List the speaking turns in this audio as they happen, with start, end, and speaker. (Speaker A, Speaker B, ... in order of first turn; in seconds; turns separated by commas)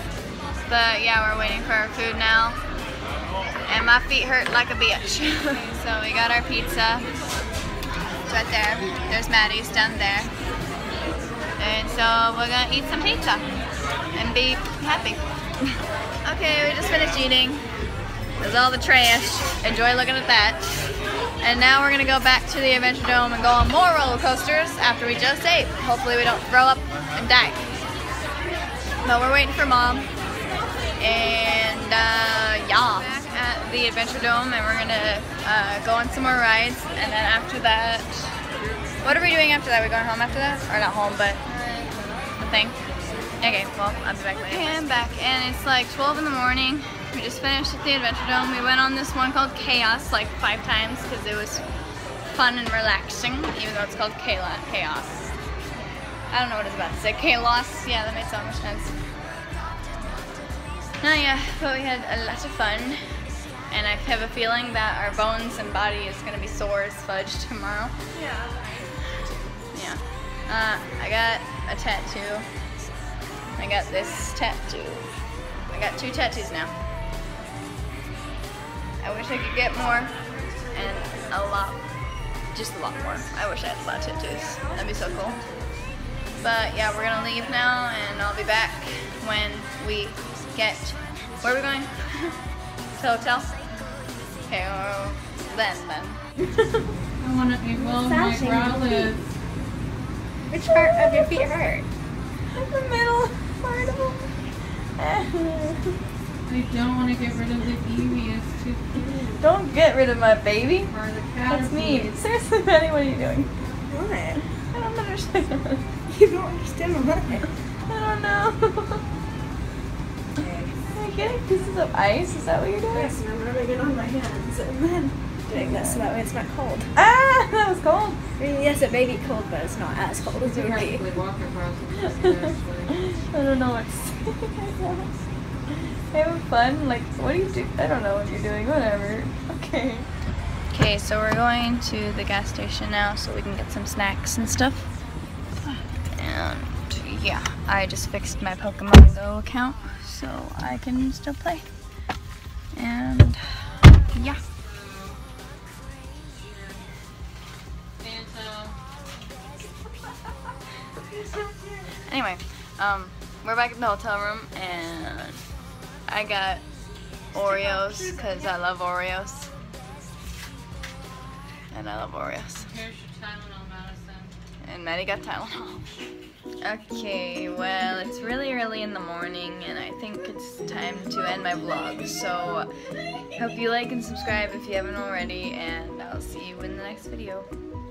Speaker A: 0.7-2.6, Speaker A: 3.7-7.1, Speaker A: 8.3-10.3, Speaker A: 11.6-13.4, Speaker A: 14.2-15.2, Speaker A: 16.2-17.6, Speaker A: 18.4-20.7, Speaker A: 21.4-27.6, Speaker A: 29.0-30.1, Speaker A: 31.0-38.4, Speaker A: 39.0-41.4, Speaker A: 42.4-42.8, Speaker A: 43.4-51.6, Speaker A: 52.3-55.4, Speaker A: 56.3-59.0, Speaker A: 61.0-63.0, Speaker A: 63.7-67.9, Speaker B: 68.1-68.8, Speaker A: 69.7-72.5, Speaker A: 73.6-75.1, Speaker A: 75.7-76.7, Speaker A: 79.0-80.1, Speaker A: 80.7-81.8, Speaker A: 82.5-85.4, Speaker B: 85.2-85.7, Speaker A: 86.4-92.4, Speaker A: 93.0-93.5, Speaker A: 94.5-96.6, Speaker C: 97.2-99.2, Speaker B: 97.8-99.1, Speaker B: 100.5-101.9, Speaker A: 100.7-101.5, Speaker A: 102.5-104.5, Speaker A: 105.0-106.0, Speaker C: 106.5-109.3, Speaker A: 109.4-110.9, Speaker C: 110.9-112.1, Speaker A: 111.5-113.5, Speaker B: 113.9-114.4, Speaker A: 114.7-115.8, Speaker B: 116.1-117.5, Speaker A: 117.9-119.0, Speaker A: 120.9-123.2, Speaker B: 122.9-126.9, Speaker A: 125.5-126.0, Speaker A: 127.0-128.2, Speaker B: 128.4-131.0, Speaker C: 130.4-133.1, Speaker A: 132.2-135.1, Speaker A: 135.7-140.1, Speaker A: 140.7-144.9, Speaker A: 146.1-151.7, Speaker A: 152.8-154.4, Speaker C: 154.6-155.2, Speaker C: 156.3-156.9, Speaker C: 158.0-158.8, Speaker B: 161.2-161.9, Speaker A: 162.0-165.4, Speaker A: 166.1-166.6, Speaker A: 167.3-169.5, Speaker B: 167.6-168.3, Speaker A: 171.7-172.7, Speaker C: 172.6-174.3, Speaker A: 174.6-175.9, Speaker A: 176.6-182.7, Speaker A: 183.4-187.5